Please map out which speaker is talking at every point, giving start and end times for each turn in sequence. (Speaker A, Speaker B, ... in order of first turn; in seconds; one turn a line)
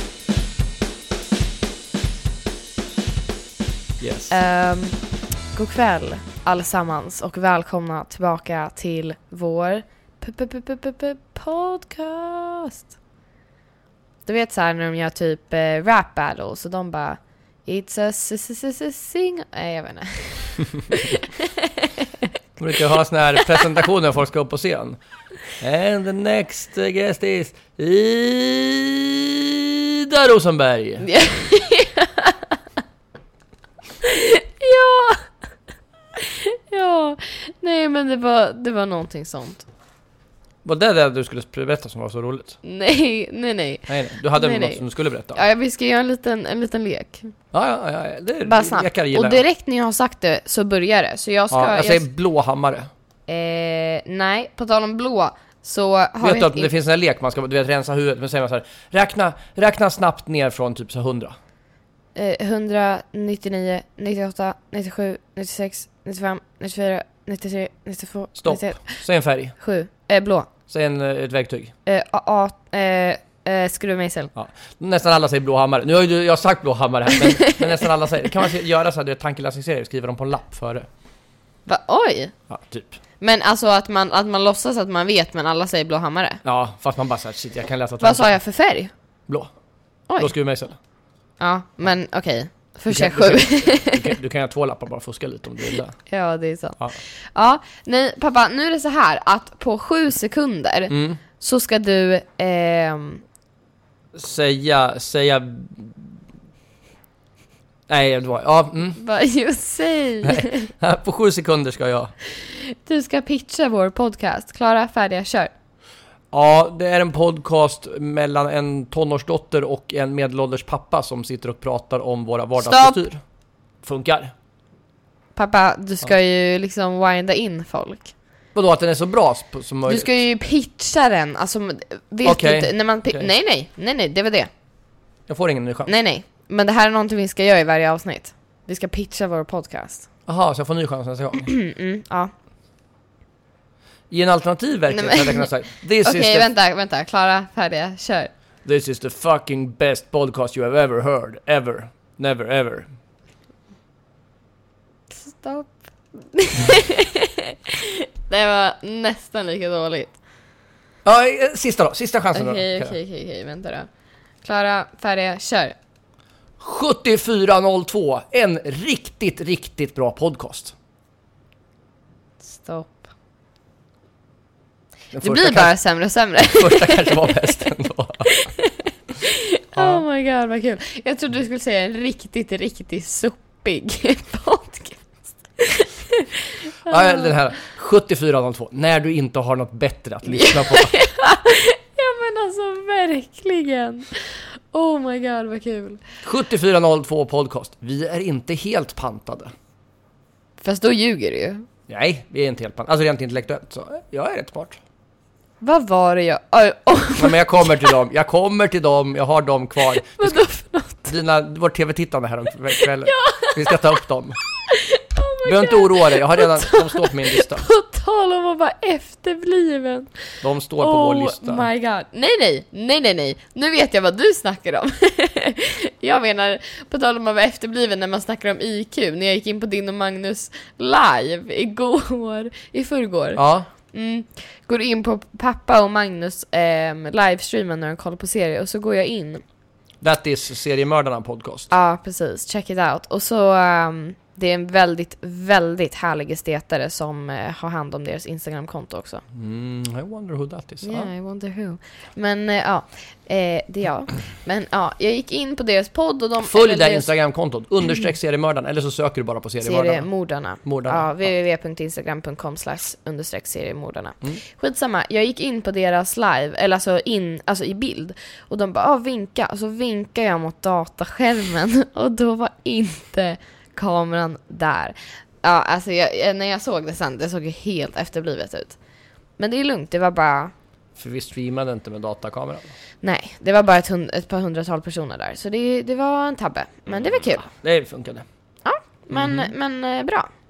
Speaker A: 4.0-4.3
Speaker B: 4.3-5.0
Speaker B: 5.5-12.9
Speaker B: 14.2-22.2
Speaker A: 22.6-25.0
Speaker A: 25.6-31.1
Speaker B: 31.0-32.5
Speaker B: 34.0-35.3
Speaker B: 36.2-39.6
Speaker A: 40.6-42.6
Speaker B: 42.6-47.3
Speaker A: 43.9-45.4
Speaker A: 47.5-49.4
Speaker B: 48.4-52.0
Speaker A: 51.5-52.9
Speaker B: 53.3-56.7
Speaker A: 56.2-61.3
Speaker B: 62.1-69.0
Speaker A: 68.4-69.5
Speaker B: 69.6-70.5
Speaker A: 70.7-71.7
Speaker B: 71.8-74.3
Speaker A: 74.3-80.9
Speaker B: 77.2-77.6
Speaker B: 81.7-82.3
Speaker A: 82.5-83.0
Speaker B: 83.2-86.4
Speaker A: 86.4-88.4
Speaker B: 88.0-88.9
Speaker A: 90.2-90.8
Speaker B: 91.4-94.1
Speaker A: 92.9-96.0
Speaker B: 96.1-103.2
Speaker A: 100.9-101.2
Speaker A: 104.1-106.1
Speaker A: 107.9-109.0
Speaker B: 109.0-110.7
Speaker A: 110.2-112.1
Speaker B: 112.3-115.5
Speaker A: 116.3-123.2
Speaker B: 122.6-123.0
Speaker A: 123.8-124.3
Speaker B: 125.3-128.1
Speaker A: 128.5-130.1
Speaker B: 129.9-134.5
Speaker A: 132.2-133.3
Speaker A: 135.3-135.9
Speaker B: 135.9-140.1
Speaker A: 140.3-141.5
Speaker B: 141.5-142.3
Speaker A: 144.1-146.5
Speaker B: 144.9-148.3
Speaker A: 148.6-152.9
Speaker B: 155.1-160.2
Speaker A: 161.0-163.0
Speaker B: 162.3-163.9
Speaker B: 164.4-165.8
Speaker A: 166.6-170.7
Speaker B: 172.4-173.0
Speaker A: 175.1-175.8
Speaker B: 175.2-177.7
Speaker A: 176.4-178.4
Speaker B: 178.3-187.3
Speaker A: 179.8-180.0
Speaker A: 186.9-191.0
Speaker B: 190.3-196.0
Speaker A: 196.2-199.5
Speaker B: 200.6-201.7
Speaker A: 201.9-204.8
Speaker B: 205.6-207.9
Speaker A: 207.2-210.4
Speaker B: 209.8-211.2
Speaker A: 211.1-214.4
Speaker B: 212.8-214.0
Speaker B: 214.7-233.4
Speaker A: 215.4-217.7
Speaker A: 220.4-221.7
Speaker A: 233.3-233.7
Speaker B: 233.9-239.4
Speaker A: 240.0-241.7
Speaker B: 241.7-249.2
Speaker A: 249.3-251.1
Speaker B: 250.8-257.1
Speaker A: 256.4-260.1
Speaker B: 259.6-278.8
Speaker A: 260.6-261.3
Speaker B: 279.4-280.5
Speaker A: 280.9-282.7
Speaker B: 283.0-287.5
Speaker A: 286.9-288.2
Speaker B: 288.6-290.3
Speaker A: 289.1-289.5